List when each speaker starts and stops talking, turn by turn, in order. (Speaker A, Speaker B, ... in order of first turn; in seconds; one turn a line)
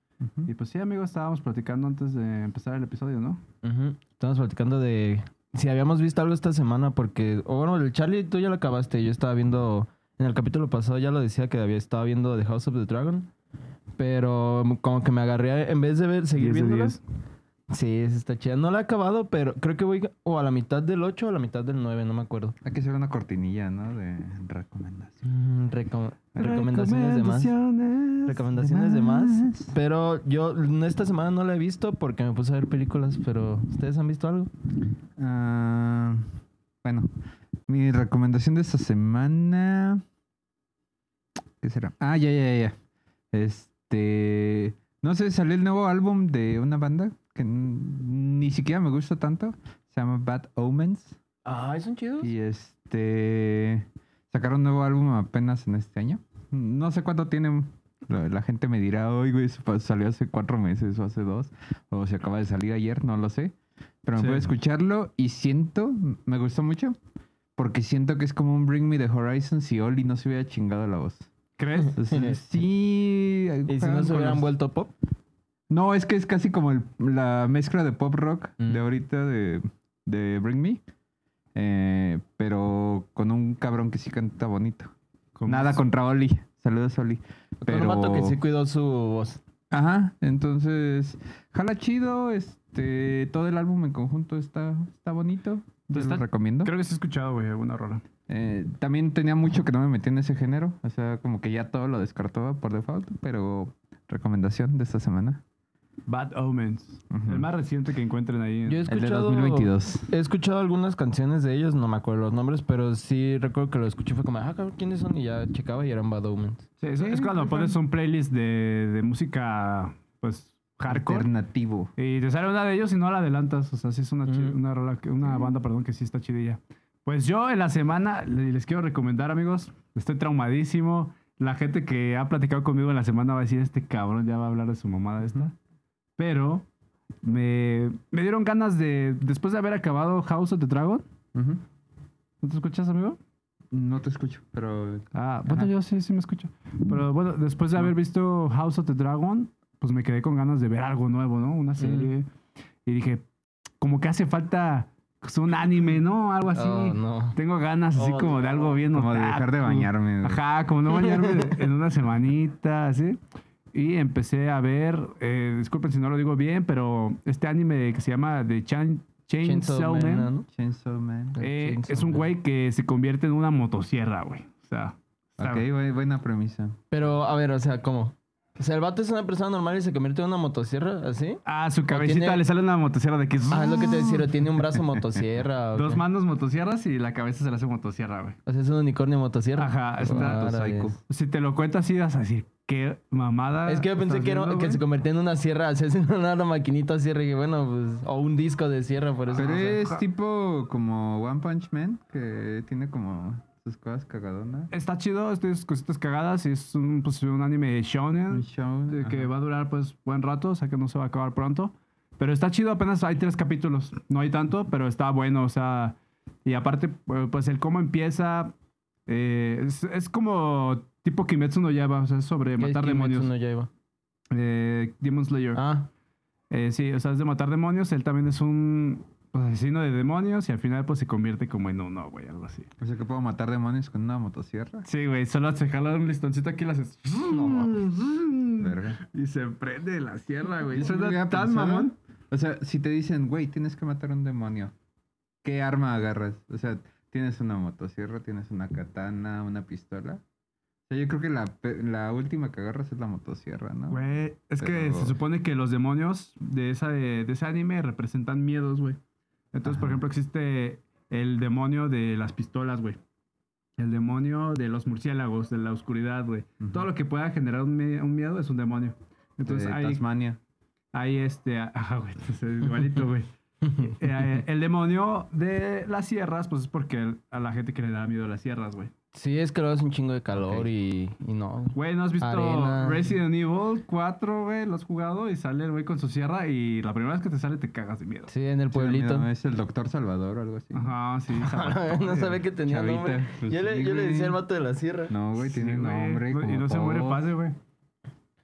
Speaker A: 0.2-0.5
Speaker B: 0.5-3.4
Speaker C: 3.6-13.3
Speaker C: 14.0-17.0
Speaker B: 16.4-17.0
Speaker C: 17.7-22.5
Speaker A: 22.6-25.3
Speaker C: 25.2-27.5
Speaker B: 26.4-29.7
Speaker C: 28.3-34.5
Speaker A: 35.2-36.3
Speaker A: 36.8-37.1
Speaker A: 37.7-40.0
Speaker A: 41.6-42.8
Speaker A: 43.3-51.2
Speaker C: 51.4-52.3
Speaker A: 52.2-67.0
Speaker B: 64.2-64.5
Speaker A: 67.6-71.3
Speaker B: 71.6-72.0
Speaker A: 71.9-74.5
Speaker C: 72.1-72.3
Speaker C: 73.7-74.9
Speaker A: 75.7-80.8
Speaker A: 81.5-84.9
Speaker B: 85.3-85.8
Speaker A: 85.5-88.4
Speaker C: 87.7-89.4
Speaker A: 89.7-96.7
Speaker B: 95.9-98.0
Speaker A: 98.3-105.4
Speaker B: 106.1-108.9
Speaker A: 107.1-107.5
Speaker C: 108.7-117.2
Speaker A: 108.9-110.1
Speaker B: 116.8-121.3
Speaker A: 117.0-117.7
Speaker A: 120.9-121.9
Speaker B: 122.0-135.5
Speaker C: 124.3-124.5
Speaker A: 135.2-135.5
Speaker B: 136.2-136.7
Speaker B: 137.2-141.0
Speaker A: 141.3-141.6
Speaker B: 142.4-143.2
Speaker A: 143.7-145.7
Speaker B: 145.1-152.3
Speaker C: 151.8-152.1
Speaker B: 152.8-153.2
Speaker B: 153.8-163.2
Speaker C: 156.5-157.4
Speaker C: 157.9-158.8
Speaker A: 158.9-160.4
Speaker C: 160.9-161.6
Speaker B: 163.7-170.3
Speaker C: 169.4-170.5
Speaker A: 170.5-172.2
Speaker C: 171.4-172.2
Speaker B: 171.4-175.6
Speaker A: 175.4-176.8
Speaker C: 176.9-182.4
Speaker B: 181.4-184.1
Speaker C: 183.5-186.0
Speaker A: 183.7-185.2
Speaker B: 185.7-188.4
Speaker C: 188.4-190.9
Speaker B: 189.6-190.5
Speaker A: 190.0-191.0
Speaker B: 191.1-194.8
Speaker C: 193.7-199.8
Speaker A: 199.3-204.7
Speaker B: 199.3-200.0
Speaker B: 204.7-218.5
Speaker A: 208.3-209.3
Speaker B: 219.1-223.3
Speaker C: 222.6-223.7
Speaker B: 224.3-225.6
Speaker C: 225.5-225.9
Speaker B: 226.5-232.7
Speaker A: 232.8-234.8
Speaker B: 234.8-241.9
Speaker C: 237.3-237.8
Speaker A: 238.6-239.0
Speaker A: 240.7-244.7
Speaker A: 245.4-250.2
Speaker A: 250.9-254.0
Speaker B: 253.9-259.0
Speaker A: 254.6-255.2
Speaker B: 259.5-263.0
Speaker A: 259.6-260.0
Speaker B: 263.8-270.0
Speaker A: 266.6-266.9
Speaker A: 269.4-270.4
Speaker B: 270.9-278.9
Speaker C: 279.1-283.0
Speaker A: 280.3-280.7
Speaker B: 281.7-288.3
Speaker C: 288.3-289.3
Speaker A: 288.7-290.9
Speaker B: 290.7-292.4
Speaker C: 291.4-295.1
Speaker A: 292.6-294.4
Speaker A: 295.1-297.3
Speaker B: 295.3-297.6